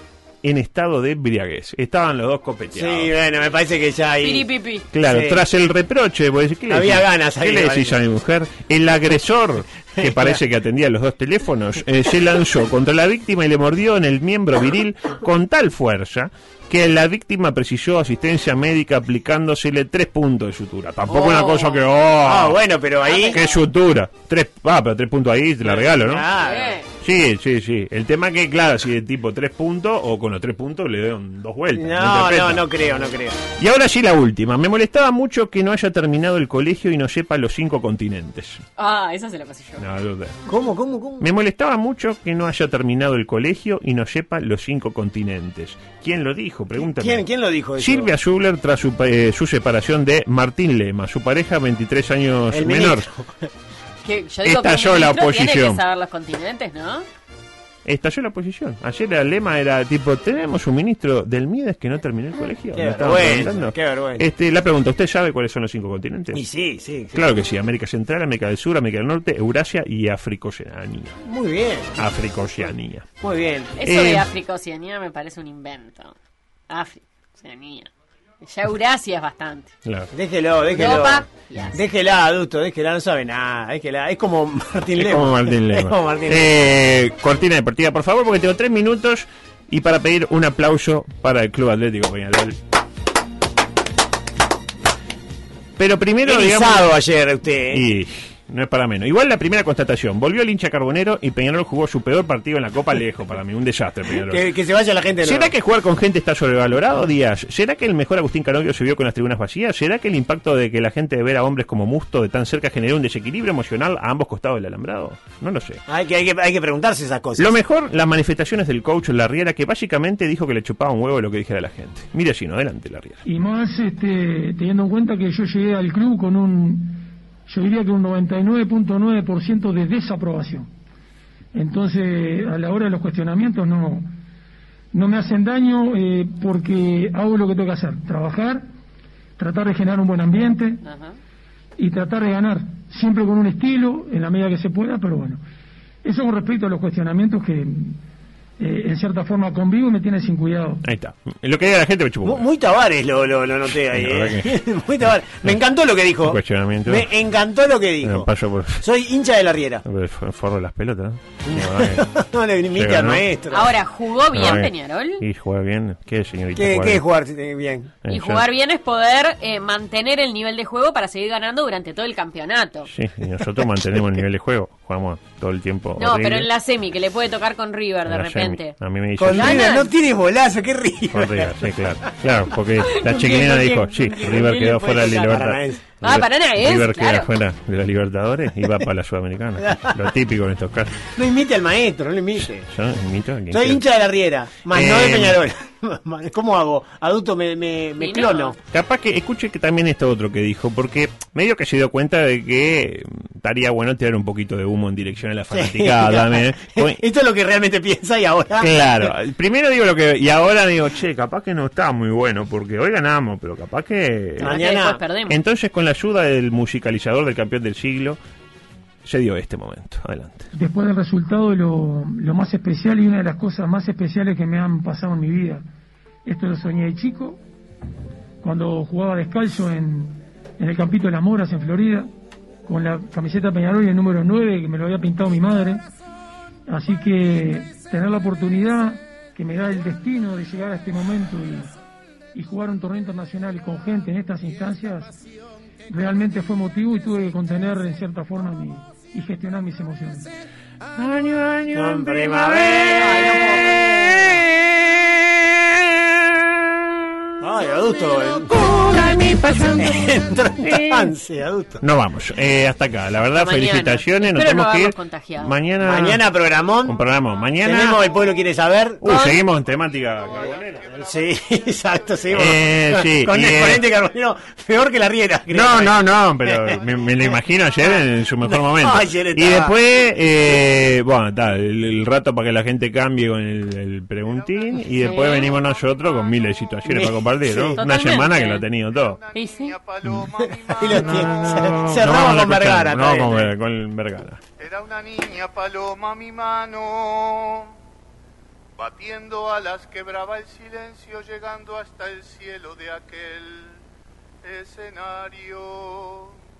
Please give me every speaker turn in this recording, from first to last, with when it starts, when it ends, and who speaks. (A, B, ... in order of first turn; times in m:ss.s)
0:00.4-0:03.1 A
0:02.7-0:04.5 B
0:04.2-0:04.9 C
0:04.9-0:22.6 A
0:05.0-0:05.4 B
0:06.7-0:08.0 B
0:10.0-0:10.4 B
0:21.1-0:21.9 C
0:22.2-0:23.4 B
0:23.1-0:23.6 C
0:23.3-0:26.2 A
0:25.6-0:26.8 B
0:26.4-0:26.9 C
0:27.0-0:32.7 A
0:31.8-0:33.4 B
0:33.6-0:38.6 A
0:38.8-0:39.8 C
0:39.8-0:40.4 A
0:40.5-0:41.3 B
0:41.2-0:47.2 A
0:46.8-0:48.1 B
0:47.8-0:53.1 A
0:52.5-0:53.5 B
0:54.0-0:57.1 C
0:54.4-0:55.8 A
0:57.8-1:06.4 A
1:02.7-1:04.3 B
1:06.3-1:07.2 B
1:07.1-1:11.2 A
1:11.2-1:12.0 B
1:12.0-1:13.1 A
1:13.2-1:13.8 B
1:13.8-1:16.1 C
1:13.8-1:14.2 A
1:16.7-1:17.9 C
1:18.4-1:19.7 C
1:19.8-1:20.1 A
1:20.1-1:26.6 B
1:20.7-1:21.8 C
1:25.0-1:32.6 A
1:35.8-1:36.9 A
1:36.2-1:37.8 B
1:37.7-1:44.4 A
1:44.3-1:45.6 B
1:45.2-1:55.8 A
1:55.9-1:57.6 B
1:57.4-2:03.2 A
2:03.3-2:10.7 D
2:11.5-2:14.1 D
2:14.9-2:18.7 D
2:19.4-2:20.8 D
2:20.8-2:21.2 C
2:21.8-2:25.4 D
2:26.0-2:28.0 D
2:28.6-2:30.8 D
2:30.8-2:32.5 A
2:32.2-2:38.3 B
2:33.7-2:34.6 A
2:36.2-2:37.1 A
2:38.0-2:38.8 A
2:38.8-2:39.8 B
2:39.8-2:42.1 A
2:41.5-2:43.7 B
2:42.7-2:43.2 A
2:43.5-2:45.2 C
2:44.3-2:47.0 A
2:46.6-2:47.9 B
2:48.0-2:48.4 A
2:48.1-2:52.9 C
2:52.9-2:56.5 A
2:56.0-2:58.8 C
2:58.1-2:59.7 A
2:59.2-3:01.8 B
2:59.3-2:59.9 C
3:01.1-3:10.9 A
3:02.8-3:05.4 C
3:04.2-3:05.8 B
3:06.0-3:07.3 C
3:09.6-3:10.0 B
3:11.2-3:12.7 B
3:12.6-3:13.8 A
3:13.5-3:18.6 B
3:14.7-3:15.4 A
3:18.0-3:18.6 C
3:18.7-3:27.0 A
3:25.5-3:29.1 B
3:28.6-3:34.5 A
3:34.4-3:35.0 B
3:34.4-3:35.4 C
3:35.3-3:38.2 A
3:39.0-3:40.5 A
3:40.5-3:45.6 D
3:46.3-3:47.4 D
3:48.4-3:52.1 D
3:52.7-3:55.8 D
3:56.7-4:01.7 D
4:02.4-4:05.1 D
4:05.9-4:10.3 D
4:11.0-4:15.8 A
4:11.7-4:14.2 B
4:17.4-4:18.8 B
4:18.5-4:21.1 A
4:19.7-4:21.8 B
4:21.8-4:26.2 A
4:23.3-4:25.6 C
4:25.8-4:27.0 B
4:26.8-4:28.0 A
4:27.6-4:29.0 B
4:29.0-4:30.8 A
4:29.0-4:29.4 C
4:29.6-4:32.4 E
4:31.0-4:39.8 B
4:32.3-4:33.9 A
4:35.5-4:49.2 A
4:44.2-4:46.8 E
4:45.0-4:45.6 C
4:46.8-4:47.8 B
4:47.8-4:48.7 C
4:48.9-4:51.5 E
4:49.3-4:49.8 C
4:50.4-4:53.5 B
4:50.9-4:54.4 A
4:54.6-4:57.7 E
4:58.8-5:03.8 E
5:04.4-5:06.4 E